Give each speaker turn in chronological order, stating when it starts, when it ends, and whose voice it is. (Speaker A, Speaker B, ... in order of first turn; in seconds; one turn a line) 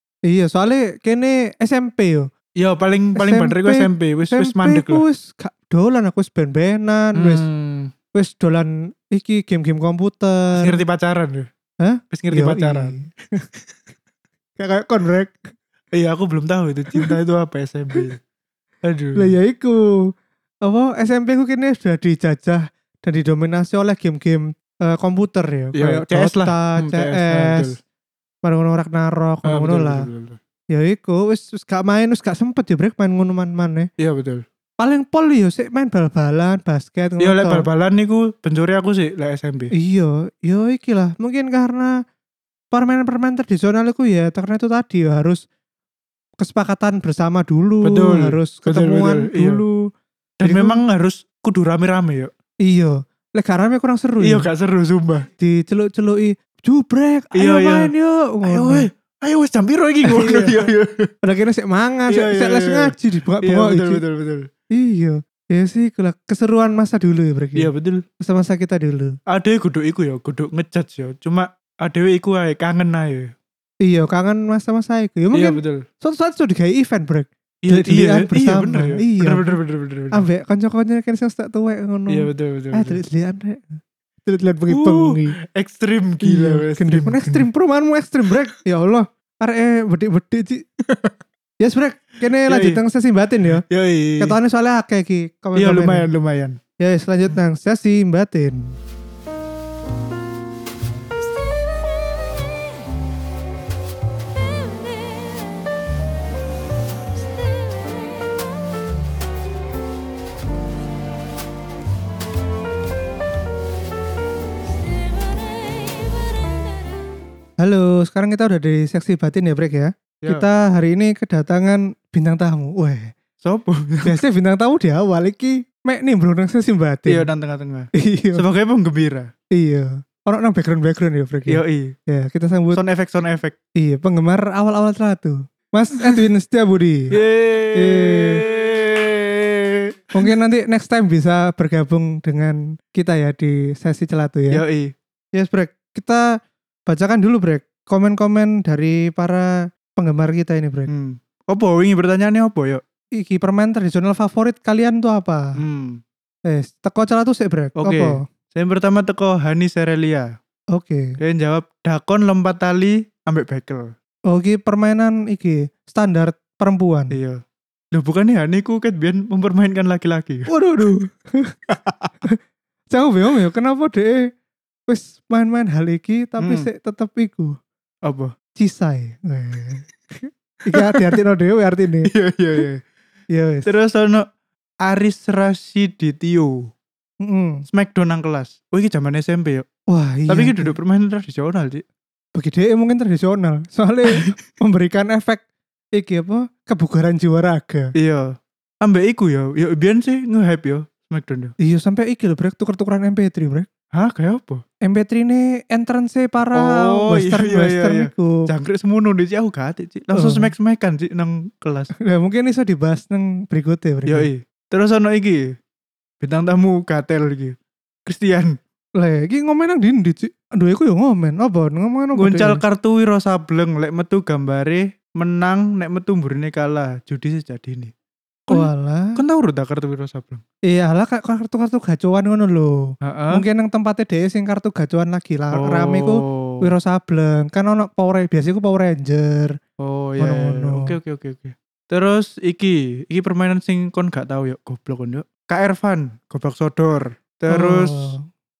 Speaker A: 0.3-2.3
Speaker B: 2.6-5.0
Speaker A: 3.1-7.4
Speaker B: 7.1-7.9
Speaker A: 8.1-10.8
Speaker B: 10.5-11.5
Speaker A: 11.8-13.4
Speaker B: 12.1-12.9
Speaker A: 14.6-15.5
Speaker B: 15.9-18.2
Speaker B: 18.8-19.3
Speaker A: 19.1-20.1
Speaker A: 20.6-27.7
Speaker B: 25.7-27.8
Speaker A: 28.4-30.1
Speaker B: 29.4-30.4
Speaker A: 30.7-33.9
Speaker B: 34.0-34.4
Speaker A: 34.8-37.6
Speaker B: 37.2-39.7
Speaker A: 39.7-42.0
Speaker A: 42.7-45.4
Speaker A: 46.4-49.9
Speaker B: 47.8-49.6
Speaker B: 50.4-52.3
Speaker A: 50.4-50.8
Speaker A: 52.6-54.5
Speaker B: 54.2-55.3
Speaker A: 55.4-58.9
Speaker B: 57.3-57.9
Speaker B: 58.4-61.1
Speaker A: 60.0-60.5
Speaker A: 61.2-64.0
Speaker B: 62.1-64.5
Speaker A: 64.7-67.7
Speaker B: 67.5-68.0
Speaker A: 68.2-69.2
Speaker B: 69.3-73.3
Speaker A: 73.8-79.4
Speaker B: 75.3-75.8
Speaker B: 77.6-80.2
Speaker A: 80.1-85.3
Speaker B: 82.1-83.0
Speaker B: 84.7-87.5
Speaker A: 86.2-90.6
Speaker B: 90.8-91.2
Speaker A: 91.6-93.6
Speaker B: 92.4-92.8
Speaker B: 93.7-94.3
Speaker A: 94.2-96.0
Speaker B: 95.5-96.6
Speaker A: 96.8-98.8
Speaker A: 117.6-123.1
Speaker B: 123.4-124.2
Speaker A: 124.0-127.3
Speaker B: 127.1-129.3
Speaker A: 128.0-128.4
Speaker A: 129.5-132.8
Speaker B: 131.5-131.9
Speaker B: 132.7-133.6
Speaker A: 133.8-137.2
Speaker B: 137.1-139.9
Speaker A: 137.7-138.4
Speaker A: 140.1-144.6
Speaker B: 144.5-144.9
Speaker A: 145.3-146.2
Speaker A: 146.9-150.9
Speaker B: 150.9-152.8
Speaker A: 153.2-155.6
Speaker B: 155.6-156.0
Speaker A: 156.4-158.2
Speaker B: 157.8-160.3
Speaker A: 160.7-161.2
Speaker B: 161.2-163.9
Speaker A: 164.3-167.1
Speaker B: 167.1-167.4
Speaker B: 167.9-170.5
Speaker A: 170.5-171.5
Speaker B: 171.7-172.1
Speaker A: 172.9-174.3
Speaker A: 174.9-177.5
Speaker B: 176.4-176.7
Speaker B: 178.0-178.3
Speaker A: 178.6-182.6
Speaker B: 180.7-181.2
Speaker B: 182.0-182.8
Speaker A: 183.3-183.7
Speaker B: 183.7-184.2
Speaker B: 184.8-186.7
Speaker A: 187.2-187.6
Speaker B: 187.7-189.7
Speaker A: 189.9-190.8
Speaker B: 190.3-191.8
Speaker A: 192.3-197.9
Speaker B: 194.1-194.3
Speaker B: 197.9-201.5
Speaker A: 201.6-203.7
Speaker B: 203.9-204.6
Speaker A: 204.8-208.5
Speaker B: 206.5-211.9
Speaker A: 210.1-210.5
Speaker A: 212.0-214.3
Speaker B: 214.1-215.5
Speaker B: 216.2-217.5
Speaker B: 218.1-218.6
Speaker A: 219.0-222.6
Speaker B: 222.2-227.9
Speaker B: 228.5-230.4
Speaker A: 228.5-229.2
Speaker A: 230.7-239.6
Speaker B: 233.0-233.4
Speaker B: 235.5-236.7
Speaker B: 239.8-248.2
Speaker A: 240.2-240.9
Speaker A: 247.5-248.2